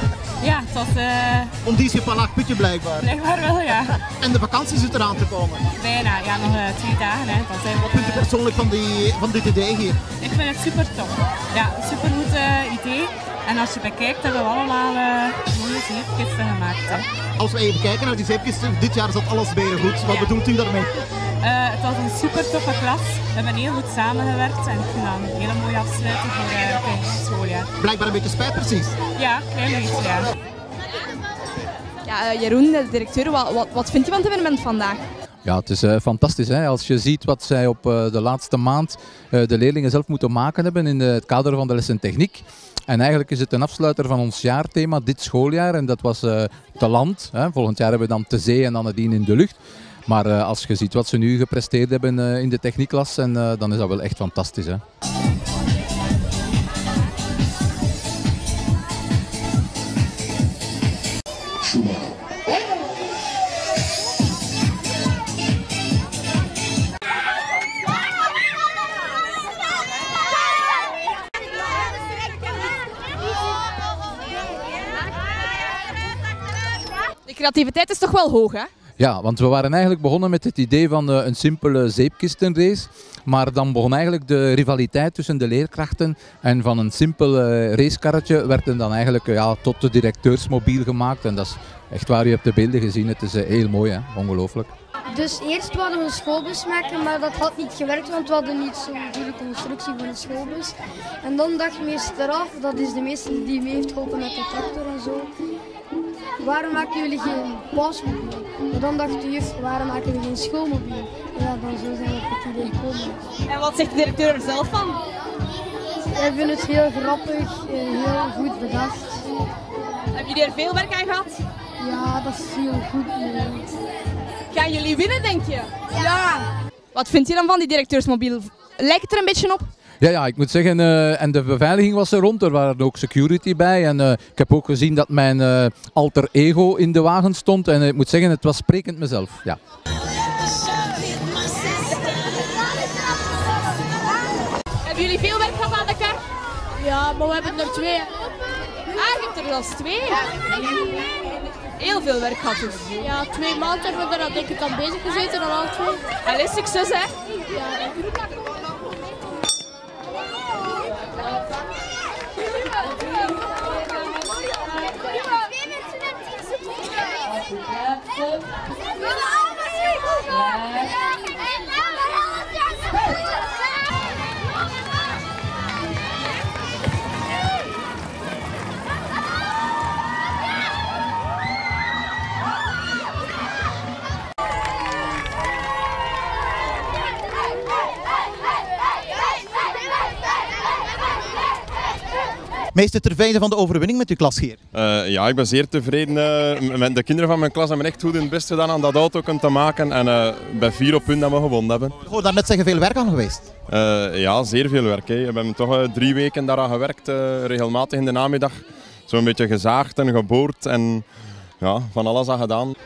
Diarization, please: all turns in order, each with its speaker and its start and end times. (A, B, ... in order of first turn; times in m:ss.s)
0:00.4-0:01.5 A
0:01.6-0:03.1 B
0:03.0-0:03.9 A
0:04.0-0:05.6 B
0:05.8-0:08.3 A
0:07.8-0:10.0 B
0:10.2-0:17.1 A
0:17.4-0:20.9 B
0:21.4-0:27.7 A
0:27.8-0:29.0 B
0:29.2-0:30.3 A
0:32.0-0:35.0 C
0:35.4-0:54.8 D
1:17.2-1:18.7 C
1:19.0-1:34.7 D
1:35.1-1:45.3 E
1:46.4-1:53.2 E
1:53.5-1:55.0 C
1:56.1-1:59.2 E
2:00.1-2:01.4 C
2:01.8-2:03.6 E
2:04.5-2:09.7 C
2:10.0-2:19.6 D
2:24.8-2:26.2 C
2:26.8-2:28.1 F
2:28.9-2:30.5 C
2:31.8-2:33.1 C
2:33.0-2:36.1 F
2:36.2-2:37.1 C
2:37.5-2:38.0 F
3:12.7-3:14.6 B
3:14.7-3:22.0 G
3:22.0-3:23.5 B
3:23.7-3:31.0 G
3:31.6-3:32.7 G